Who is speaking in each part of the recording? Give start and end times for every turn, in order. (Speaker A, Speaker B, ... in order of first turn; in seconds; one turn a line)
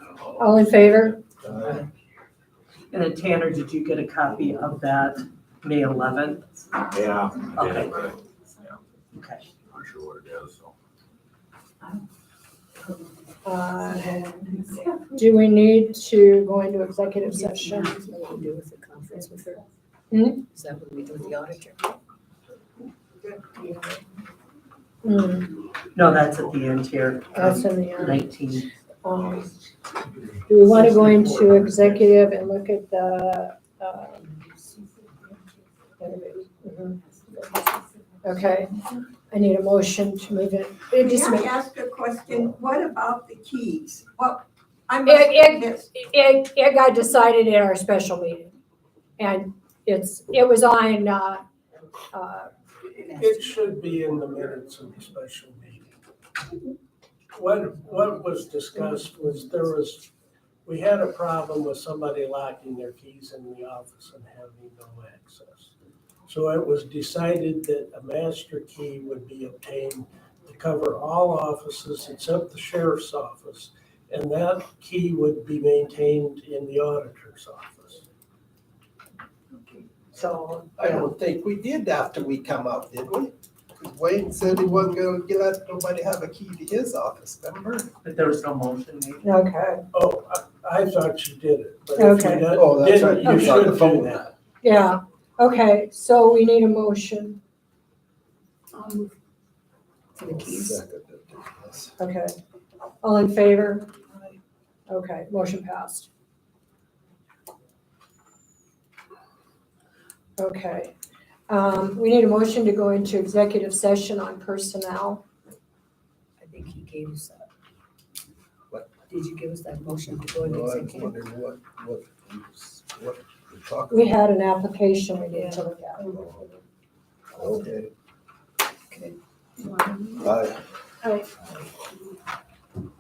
Speaker A: 0.4-1.2
Speaker B: 1.4-1.8
Speaker C: 2.9-6.4
Speaker D: 6.9-8.2
Speaker C: 7.5-8.1
Speaker C: 9.1-9.4
Speaker D: 9.7-10.7
Speaker A: 13.4-17.9
Speaker E: 17.2-19.6
Speaker A: 20.1-20.4
Speaker E: 20.5-22.0
Speaker A: 25.0-25.6
Speaker C: 25.9-28.7
Speaker A: 27.4-28.3
Speaker A: 29.0-29.5
Speaker A: 30.5-34.5
Speaker A: 36.0-37.3
Speaker A: 38.2-41.6
Speaker F: 41.0-45.9
Speaker A: 45.1-48.6
Speaker A: 49.2-51.5
Speaker A: 52.1-52.5
Speaker G: 53.0-55.9
Speaker G: 57.4-60.1
Speaker G: 60.7-65.7
Speaker G: 66.3-78.1
Speaker A: 80.1-80.9
Speaker B: 80.8-87.9
Speaker C: 88.0-89.2
Speaker A: 89.2-89.8
Speaker G: 89.9-94.3
Speaker A: 92.0-92.6
Speaker B: 92.5-94.3
Speaker A: 93.2-93.6
Speaker A: 94.6-97.4
Speaker E: 100.2-100.8
Speaker B: 100.2-101.9
Speaker A: 102.0-102.4
Speaker A: 103.0-103.9
Speaker A: 104.9-106.1
Speaker A: 110.4-110.9
Speaker A: 111.5-115.2
Speaker E: 116.4-117.5
Speaker E: 119.1-121.2
Speaker B: 120.5-124.1
Speaker A: 123.9-126.1
Speaker B: 126.2-126.4
Speaker B: 127.3-127.9
Speaker B: 130.2-130.6